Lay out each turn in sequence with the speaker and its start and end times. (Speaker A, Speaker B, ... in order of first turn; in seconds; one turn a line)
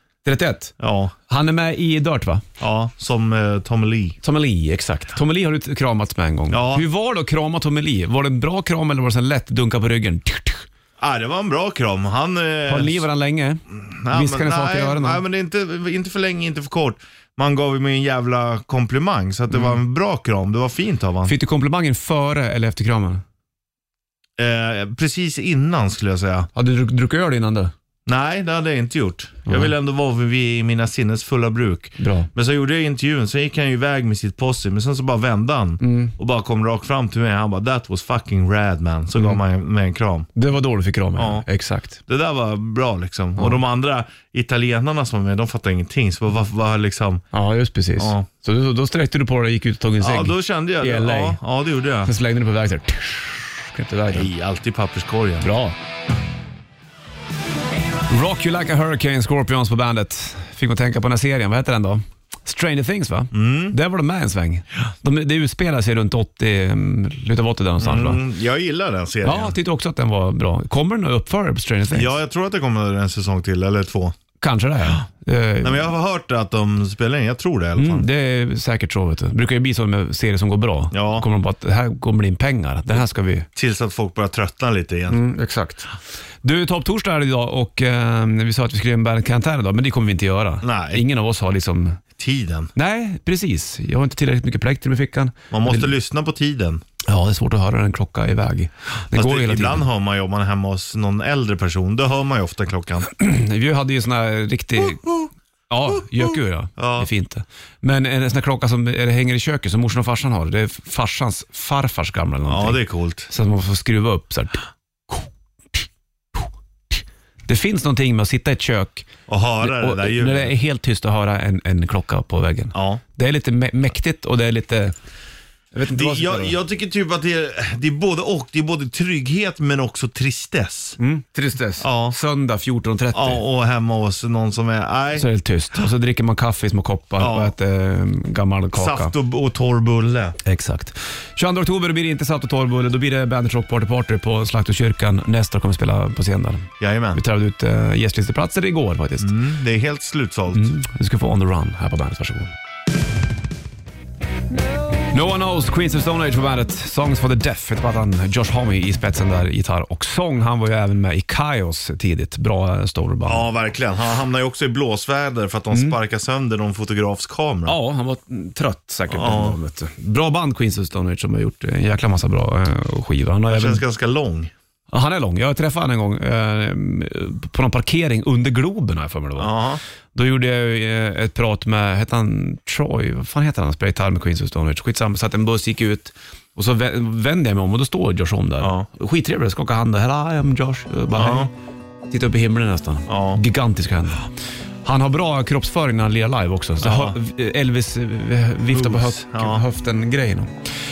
Speaker A: 0.2-0.7
Speaker B: 0.8-1.1
Speaker A: 1.3-2.4
Speaker B: 2.6-4.2
Speaker A: 4.2-10.6
Speaker B: 6.5-6.8
Speaker B: 11.0-13.1
Speaker A: 12.7-15.2
Speaker B: 13.7-21.3
Speaker A: 21.2-23.2
Speaker B: 24.4-26.5
Speaker A: 26.5-27.7
Speaker B: 28.1-40.3
Speaker A: 29.4-29.7
Speaker A: 32.0-32.3
Speaker A: 35.8-36.1
Speaker A: 40.4-42.0
Speaker B: 41.1-41.5
Speaker B: 42.1-47.2
Speaker A: 47.3-51.4
Speaker B: 48.0-48.3
Speaker B: 50.0-52.1
Speaker A: 52.0-54.3
Speaker B: 54.1-55.5
Speaker A: 55.4-55.7
Speaker A: 58.1-68.2
Speaker B: 63.3-63.8
Speaker B: 67.8-69.6
Speaker A: 69.2-72.2
Speaker B: 71.9-74.2
Speaker A: 74.4-75.9
Speaker B: 75.6-78.1
Speaker A: 77.8-83.5
Speaker B: 80.9-81.2
Speaker B: 83.5-85.2
Speaker A: 85.1-85.9
Speaker A: 86.4-92.0
Speaker B: 90.6-91.0
Speaker B: 92.2-92.7
Speaker A: 92.7-95.9
Speaker B: 95.5-96.8
Speaker A: 97.0-99.8
Speaker B: 99.1-103.1
Speaker A: 103.1-105.0
Speaker B: 104.8-105.3
Speaker A: 105.7-119.1
Speaker B: 106.8-107.1
Speaker B: 112.5-113.3
Speaker B: 119.3-120.5
Speaker A: 119.6-124.9
Speaker B: 122.7-123.0
Speaker A: 125.7-126.6
Speaker B: 125.9-131.0
Speaker A: 131.0-133.4
Speaker B: 131.8-132.2
Speaker B: 133.1-135.3
Speaker A: 135.1-139.1
Speaker B: 137.2-137.5
Speaker B: 138.7-140.4
Speaker A: 140.4-149.3
Speaker B: 146.8-147.2
Speaker B: 149.2-150.7
Speaker A: 150.5-152.5
Speaker A: 155.1-163.5
Speaker B: 163.3-167.8
Speaker A: 167.7-173.8
Speaker B: 169.1-169.6
Speaker B: 173.5-174.5
Speaker A: 174.9-179.5
Speaker B: 179.4-179.8
Speaker A: 180.1-191.5
Speaker B: 188.6-188.9
Speaker B: 191.1-191.5
Speaker A: 192.1-194.3
Speaker B: 193.1-193.4
Speaker A: 194.8-200.5
Speaker B: 196.8-197.2
Speaker B: 198.7-199.6